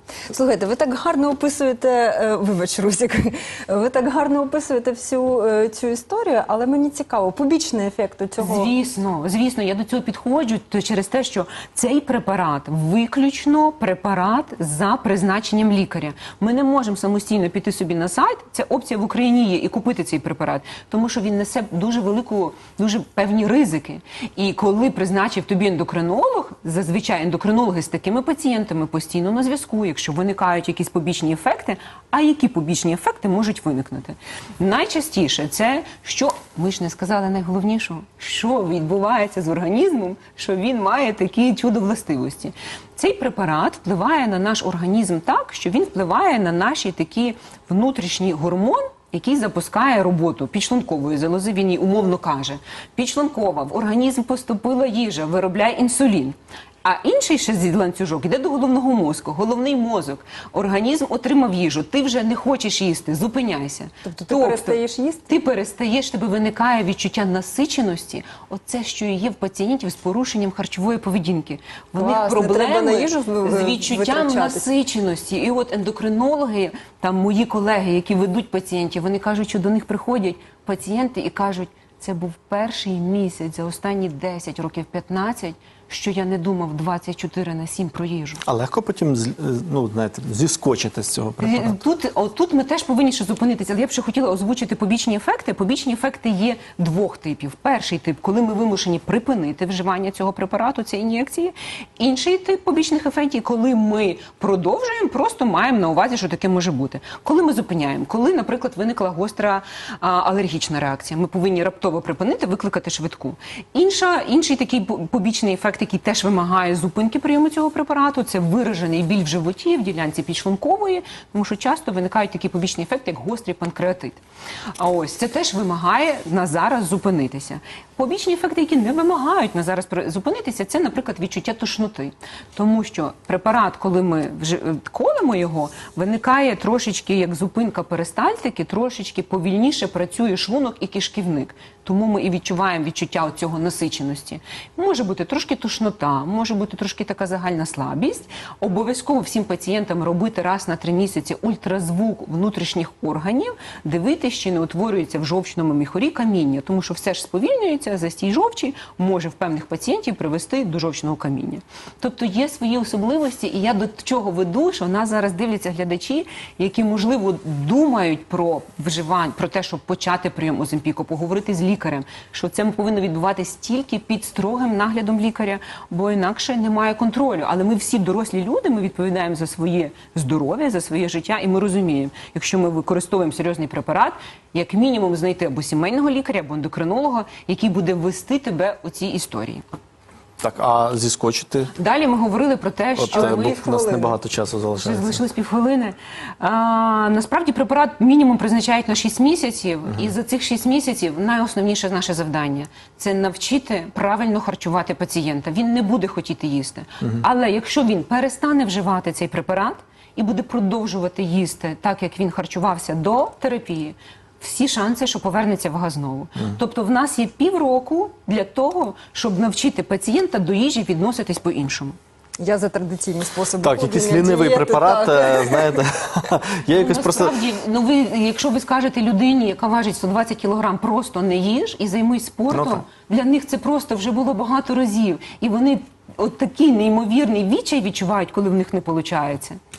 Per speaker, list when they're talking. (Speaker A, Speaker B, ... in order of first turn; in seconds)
Speaker A: 0.3-8.7, 64.0-65.3, 72.0-74.7, 193.1-194.1, 222.4-225.8
Speaker B: 8.4-88.4, 91.4-124.2, 124.8-189.6, 191.8-193.7, 194.8-222.0, 226.7-239.6
Speaker C: 88.5-91.8, 190.4-191.7, 193.0-195.2, 223.6-227.4, 232.5-232.8